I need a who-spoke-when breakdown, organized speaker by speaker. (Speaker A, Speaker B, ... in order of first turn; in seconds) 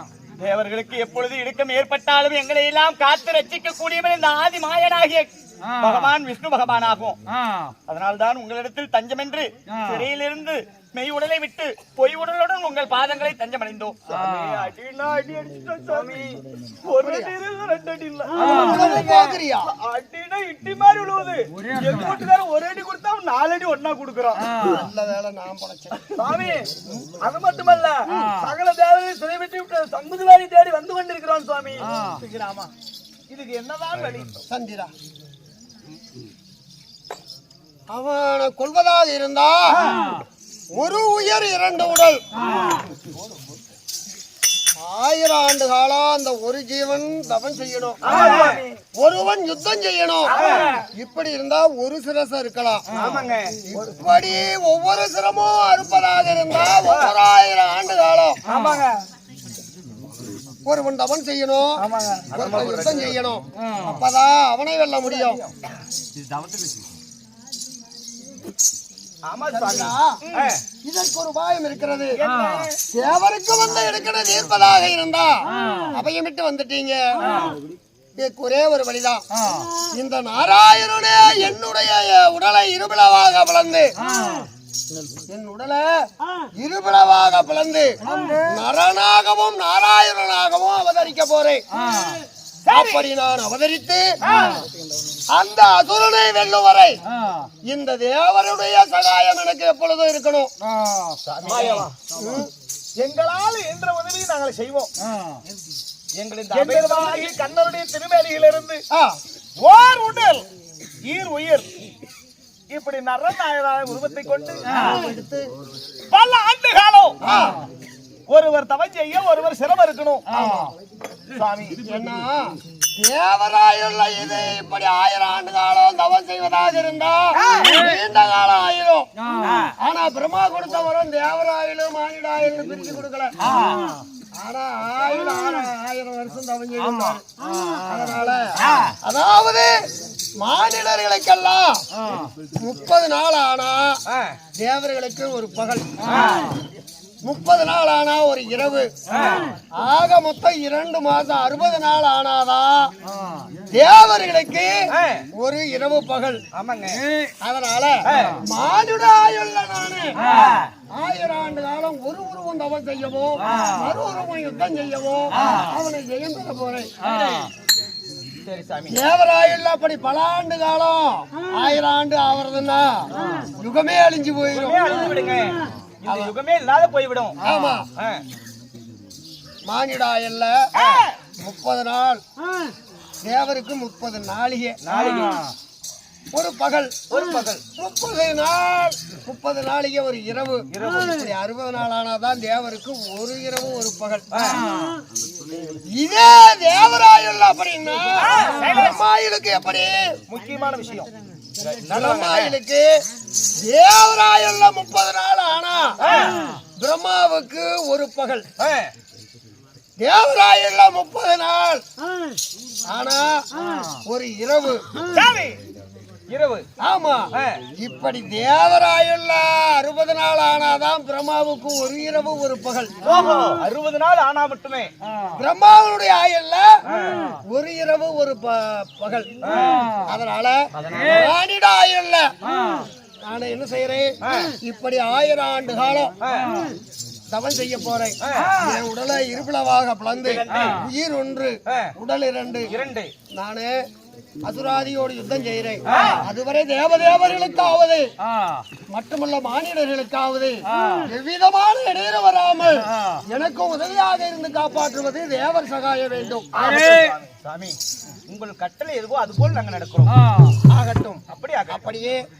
Speaker A: 0.4-2.0, 5.8-7.2, 7.9-9.5, 14.1-24.5, 26.1-32.7, 33.3-34.4, 39.7-40.0, 48.0-48.7, 50.3-50.9, 52.9-53.5, 58.5-58.9, 61.8-63.1, 65.1-65.5, 69.3-70.6, 72.2-72.8, 92.7-93.1, 94.2-94.7, 101.3-101.9, 103.0-104.9, 106.2-108.8, 109.6-110.5, 111.0-111.7, 112.7-114.9, 116.1-117.2, 118.3-120.3, 121.3-121.8, 127.4-127.8, 129.5-129.7, 146.1-146.5, 149.2-149.4, 155.0-155.2, 156.5-157.1, 158.1-158.4, 160.2-160.7, 167.1-167.4, 168.4-169.0, 174.5-177.4, 180.8-181.1, 184.8-185.5, 187.1-187.6, 190.7-191.1, 198.2-199.0, 200.3-202.6, 206.0-206.4, 208.6-208.9, 215.1-215.6, 216.3-216.7, 223.0-224.9, 226.9-227.3, 229.5-229.8, 230.8-231.1, 240.2-240.8, 242.7-243.1, 245.9-246.2, 256.5-257.8, 258.3-260.2, 261.3-261.9
Speaker B: 0.5-14.7, 18.4-18.9, 21.7-22.1, 24.5-24.8, 48.1-48.5, 52.9-53.2, 58.5-58.8, 72.3-72.7, 100.9-101.9, 106.4-107.4, 163.5-163.8, 256.8-257.1
Speaker C: 16.9-17.4, 18.4-19.7, 24.6-26.3, 26.9-27.1, 34.5-34.9, 37.9-39.8, 40.8-42.2, 44.8-52.9, 53.7-58.4, 60.7-65.4, 69.5-70.2, 70.8-72.2, 72.9-77.5, 78.2-79.2, 79.8-84.0, 85.3-86.0, 86.6-91.6, 92.7-94.1, 95.3-97.0, 97.7-100.5, 102.2-102.5, 108.9-109.2, 114.7-115.5, 117.2-117.6, 120.3-120.7, 121.8-129.1, 129.8-133.4, 134.3-137.2, 137.8-139.8, 140.4-141.8, 142.6-144.0, 144.6-146.2, 147.2-148.9, 149.8-152.9, 153.7-154.7, 155.3-156.4, 157.4-160.4, 160.9-166.9, 168.9-174.9, 177.4-177.9, 179.7-180.7, 181.4-182.2, 183.2-184.8, 186.3-187.0, 187.8-194.3, 195.9-200.2, 201.9-202.9, 203.6-206.0, 206.8-208.5, 210.0-211.8, 212.9-213.4, 214.1-214.9, 216.8-222.9, 225.3-226.8, 227.5-229.3, 230.1-232.3, 233.2-236.1, 237.3-242.7, 243.3-243.7, 244.4-248.1, 248.9-256.8, 260.7-262.2